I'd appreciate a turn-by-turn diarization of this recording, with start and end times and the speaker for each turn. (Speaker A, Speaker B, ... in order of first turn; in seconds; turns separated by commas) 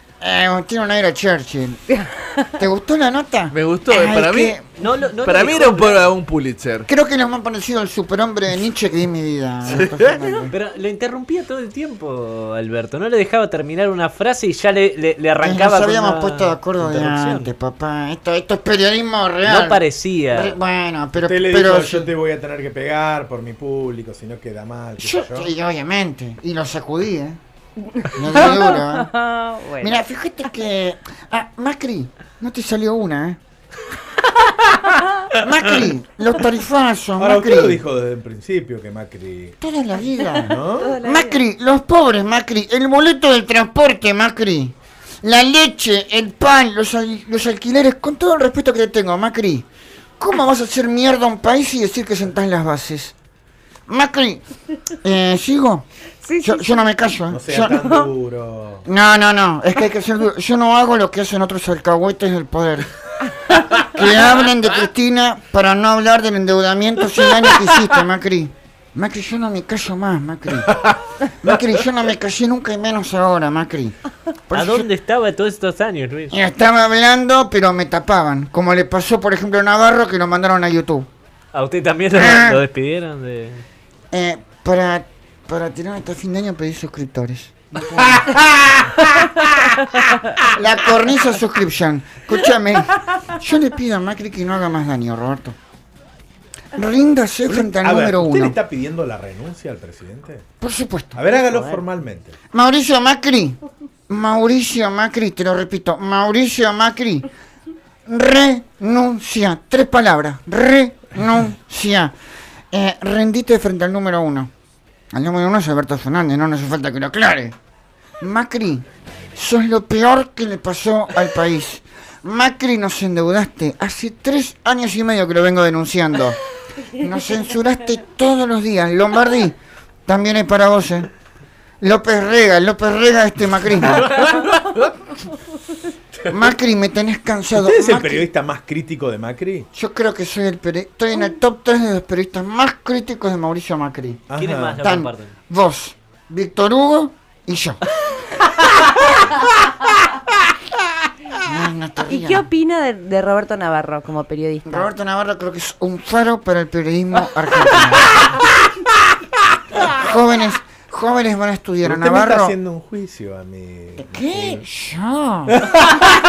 Speaker A: 0.2-1.8, Speaker B: 1.9-2.5, Speaker A: 2.5-4.6, Speaker C: 3.5-6.9, Speaker D: 4.8-6.0, Speaker A: 6.8-10.5, Speaker C: 9.7-10.1, Speaker D: 10.5-17.5, Speaker A: 15.4-22.1, Speaker D: 19.4-20.6, Speaker E: 21.1-25.5, Speaker A: 25.0-27.4, Speaker B: 28.0-30.0, Speaker A: 28.1-29.1, Speaker A: 29.8-33.4, Speaker A: 35.3-37.8, Speaker E: 37.2-39.6, Speaker A: 39.6-49.6, Speaker E: 40.5-40.9, Speaker B: 40.8-41.4, Speaker A: 50.2-53.1, Speaker A: 53.9-55.9, Speaker B: 56.2-56.9, Speaker A: 56.4-58.0, Speaker E: 57.3-58.9, Speaker A: 58.9-62.9, Speaker A: 63.6-74.0, Speaker A: 74.5-74.9, Speaker D: 74.5-76.4, Speaker A: 76.3-81.1, Speaker D: 81.5-83.6, Speaker A: 82.1-82.6, Speaker A: 84.1-95.5, Speaker A: 96.7-98.6, Speaker E: 97.5-100.4, Speaker A: 100.6-101.2, Speaker E: 101.1-102.3, Speaker A: 102.5-103.6, Speaker A: 104.1-107.3, Speaker A: 108.1-112.1, Speaker A: 112.7-114.5, Speaker A: 115.1-117.5, Speaker A: 118.2-126.4, Speaker A: 126.9-131.1, Speaker A: 131.8-134.2, Speaker D: 134.0-134.8, Speaker A: 136.3-138.3, Speaker E: 137.5-139.7, Speaker A: 139.7-144.2, Speaker E: 144.3-144.8, Speaker D: 144.3-145.3, Speaker A: 144.8-147.8, Speaker A: 151.3-152.5, Speaker B: 152.1-154.9, Speaker A: 154.6-158.4, Speaker A: 159.8-162.5, Speaker E: 161.8-164.6, Speaker A: 164.0-165.7, Speaker E: 165.6-165.9